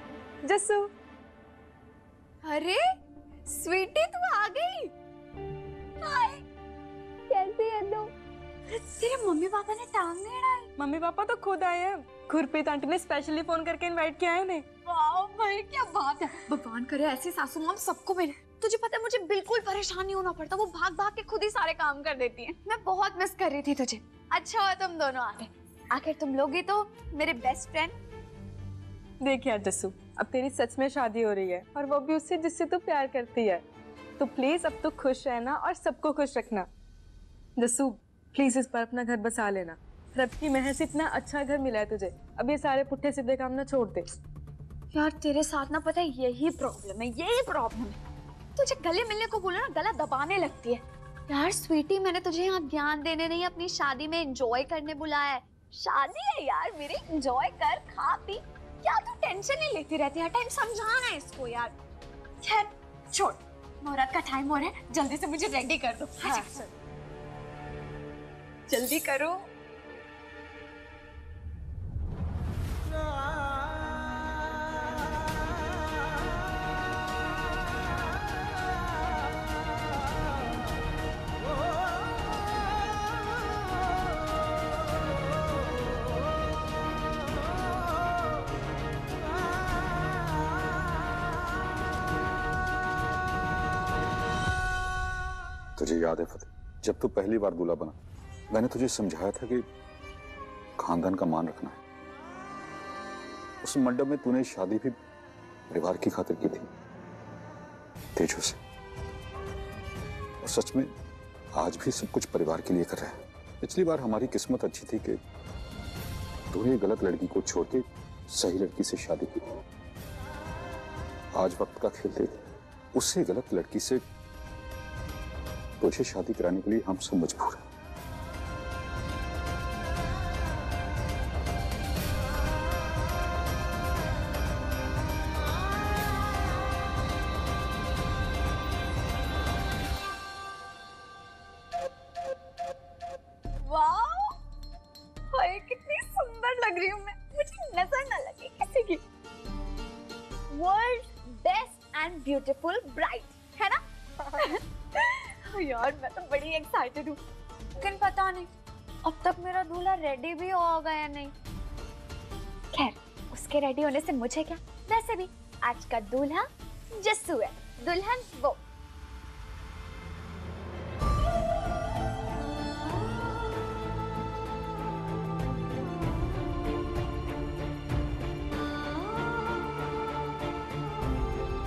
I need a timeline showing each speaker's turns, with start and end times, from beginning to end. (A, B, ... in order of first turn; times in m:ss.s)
0:00.4-0:00.9 A
0:02.4-0:02.8 B
0:03.4-0:04.9 B
0:06.0-0:06.4 B
0:07.3-0:08.1 B
0:08.7-0:10.7 B
0:10.8-0:14.6 A
0:14.8-0:27.9 B
0:29.2-0:33.6 A
0:34.2-0:36.7 A
0:37.6-0:44.1 A
0:44.9-0:48.0 B
0:48.5-1:01.7 B
1:02.4-1:06.7 B
1:08.7-1:09.4 B
1:35.8-1:37.9 C
1:38.5-1:39.6 C
1:40.8-1:41.8 C
1:43.6-1:44.9 C
1:45.7-1:46.7 C
1:48.2-1:48.6 C
1:50.4-1:50.8 C
1:51.6-1:55.2 C
1:56.5-1:59.4 C
2:01.3-2:02.3 C
2:02.9-2:04.0 C
2:05.8-2:07.6 C
2:23.6-2:24.4 B
2:25.3-2:29.0 B
2:30.5-2:33.8 B
2:34.3-2:37.2 B
2:37.8-2:38.5 B
2:39.0-2:41.3 B
2:42.7-2:46.4 B
2:47.0-2:48.6 B